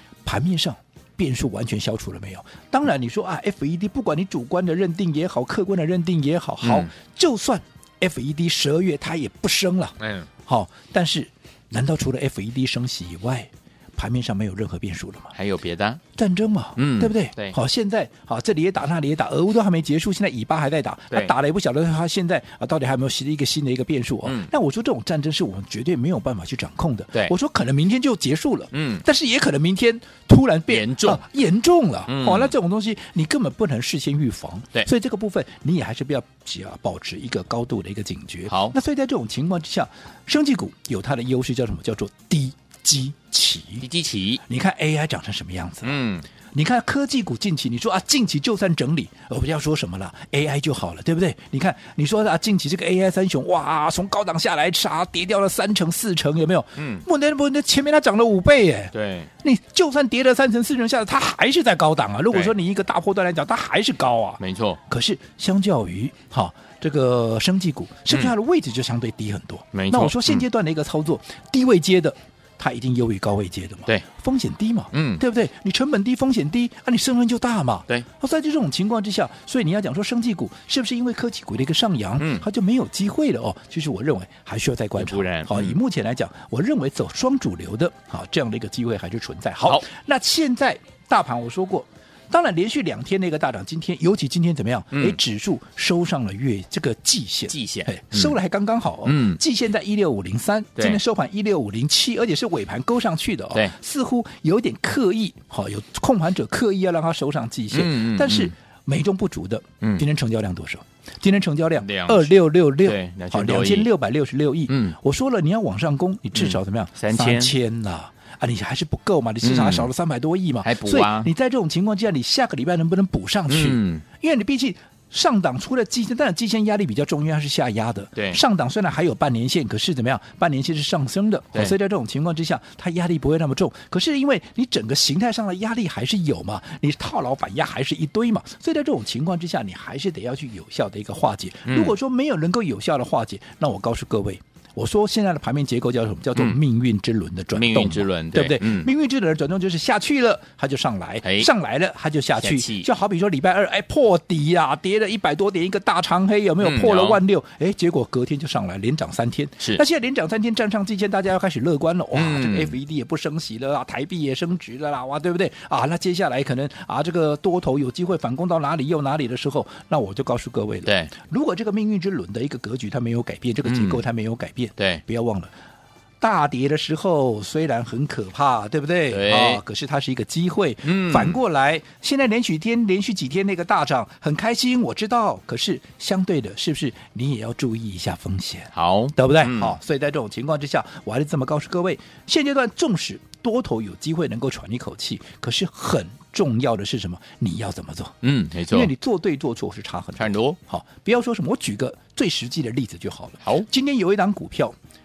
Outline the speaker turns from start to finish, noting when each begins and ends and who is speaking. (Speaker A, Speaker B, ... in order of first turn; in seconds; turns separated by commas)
Speaker A: 0.2-15.3, Speaker B: 6.6-6.9, Speaker B: 10.0-10.3, Speaker B: 15.3-16.0, Speaker A: 16.1-43.9, Speaker B: 16.8-17.6, Speaker B: 24.2-24.5, Speaker B: 28.7-29.0, Speaker B: 30.7-31.2, Speaker B: 32.1-32.5, Speaker B: 38.5-38.8, Speaker B: 43.8-44.4, Speaker A: 44.4-46.0, Speaker B: 45.8-46.2, Speaker A: 46.5-175.5, Speaker B: 56.8-57.0, Speaker B: 58.9-59.3, Speaker B: 64.4-64.8, Speaker B: 69.7-70.4, Speaker B: 74.9-75.2, Speaker B: 82.2-82.4, Speaker B: 85.0-85.8, Speaker B: 94.9-95.2, Speaker B: 97.5-98.3, Speaker B: 99.0-99.4, Speaker B: 107.7-108.5, Speaker B: 111.8-112.3, Speaker B: 112.8-113.9, Speaker B: 114.7-115.0, Speaker B: 116.3-117.5, Speaker B: 119.4-119.9, Speaker B: 120.6-121.3, Speaker B: 123.5-124.0, Speaker B: 141.7-141.9, Speaker B: 147.5-148.9, Speaker B: 151.2-151.5, Speaker B: 152.4-152.9, Speaker B: 156.6-157.2, Speaker B: 162.1-162.8, Speaker B: 170.8-171.1, Speaker B: 173.6-174.0, Speaker B: 174.8-175.0, Speaker A: 176.2-198.2, Speaker B: 179.1-179.6, Speaker B: 180.8-181.4, Speaker B: 188.7-189.8, Speaker B: 198.2-198.9, Speaker A: 198.7-204.8, Speaker B: 200.2-200.6